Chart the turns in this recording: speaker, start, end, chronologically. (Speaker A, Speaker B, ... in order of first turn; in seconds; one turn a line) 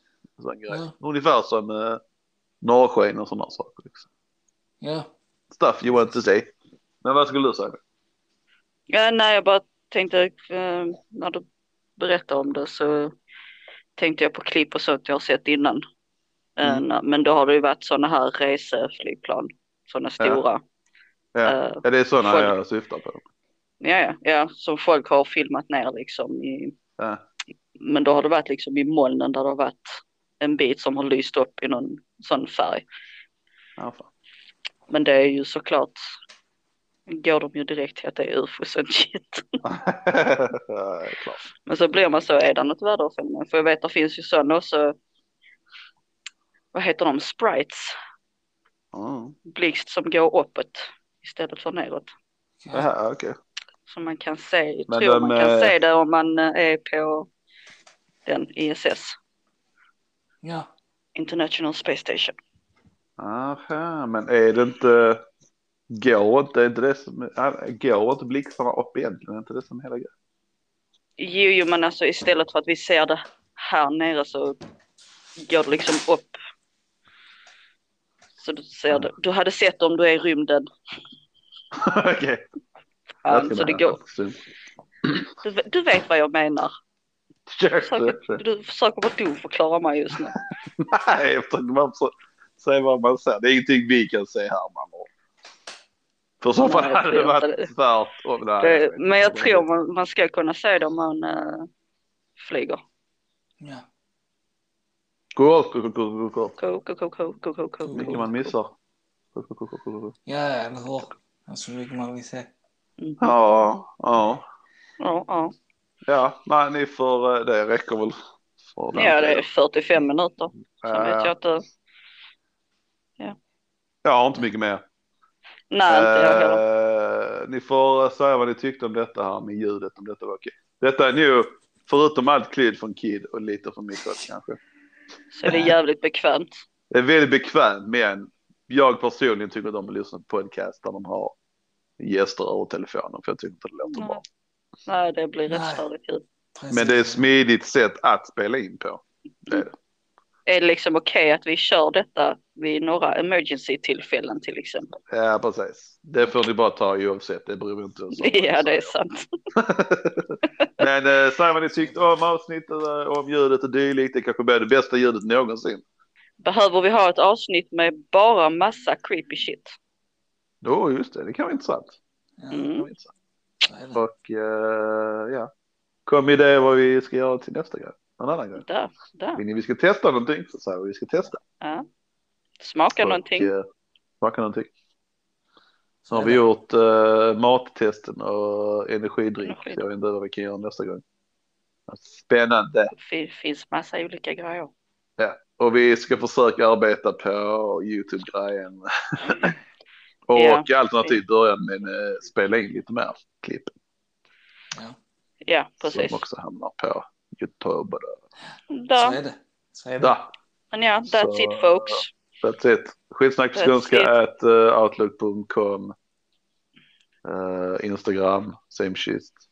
Speaker A: 0.4-2.0
Speaker A: 2.6-4.1
Speaker B: 4.8-5.1
Speaker A: 5.5-6.5
Speaker A: 7.0-7.8
Speaker C: 8.9-11.4
Speaker C: 12.0-13.1
Speaker C: 14.0-15.8
Speaker C: 16.6-20.6
Speaker A: 21.3-23.2
Speaker C: 21.5-22.5
Speaker C: 23.8-26.8
Speaker A: 27.0-27.2
Speaker C: 27.8-32.9
Speaker A: 33.8-34.1
Speaker C: 34.9-36.0
Speaker C: 37.1-39.6
Speaker A: 39.6-41.4
Speaker C: 41.6-45.0
Speaker C: 46.7-47.9
Speaker A: 48.9-49.4
Speaker C: 49.5-52.1
Speaker B: 52.6-52.9
Speaker A: 52.7-53.4
Speaker C: 53.9-57.3
Speaker A: 54.9-55.7
Speaker C: 58.3-59.2
Speaker C: 61.2-62.4
Speaker A: 63.2-65.2
Speaker A: 65.9-70.1
Speaker C: 71.2-74.6
Speaker C: 75.4-76.4
Speaker C: 78.4-80.7
Speaker A: 81.7-82.4
Speaker C: 83.2-84.0
Speaker A: 83.3-84.4
Speaker C: 85.4-86.7
Speaker A: 87.5-88.4
Speaker C: 87.8-90.4
Speaker A: 90.1-95.1
Speaker A: 96.4-99.7
Speaker C: 96.6-97.7
Speaker C: 98.6-101.7
Speaker C: 102.4-102.8
Speaker A: 105.4-106.5
Speaker C: 106.6-108.1
Speaker B: 107.8-108.4
Speaker A: 107.9-108.8
Speaker A: 109.3-110.2
Speaker B: 110.3-112.5
Speaker C: 113.0-113.3
Speaker A: 113.2-114.4
Speaker C: 115.0-115.5
Speaker A: 116.1-119.5
Speaker C: 118.9-121.6
Speaker A: 120.8-121.3
Speaker A: 124.0-124.8
Speaker C: 125.7-126.6
Speaker A: 125.9-134.6
Speaker C: 135.3-136.5
Speaker B: 135.5-135.8
Speaker A: 136.9-141.4
Speaker A: 142.0-144.2
Speaker C: 143.9-144.2
Speaker C: 144.9-146.2
Speaker B: 145.5-145.8
Speaker B: 146.6-147.2
Speaker A: 146.7-149.8
Speaker C: 150.5-154.9
Speaker A: 155.1-158.9
Speaker C: 158.1-159.3
Speaker A: 159.6-165.8
Speaker C: 166.4-169.7
Speaker A: 170.6-172.0
Speaker B: 172.4-172.7
Speaker C: 172.5-172.9
Speaker A: 172.8-173.1
Speaker B: 173.7-174.0
Speaker A: 173.9-175.5
Speaker A: 176.1-178.6
Speaker C: 178.6-179.4
Speaker A: 179.4-181.4
Speaker C: 182.6-183.5
Speaker A: 183.0-183.6
Speaker A: 184.2-184.7
Speaker B: 186.1-186.4
Speaker A: 186.1-191.0
Speaker C: 189.4-189.8
Speaker A: 191.9-192.9
Speaker C: 192.9-194.7
Speaker A: 195.2-199.6
Speaker A: 200.3-203.7
Speaker C: 200.3-201.2
Speaker C: 205.5-206.2
Speaker A: 205.8-208.2
Speaker C: 208.7-209.2
Speaker B: 209.0-210.2
Speaker A: 210.0-210.3
Speaker C: 210.7-212.1
Speaker A: 211.1-215.9
Speaker C: 213.6-214.1
Speaker A: 217.2-219.4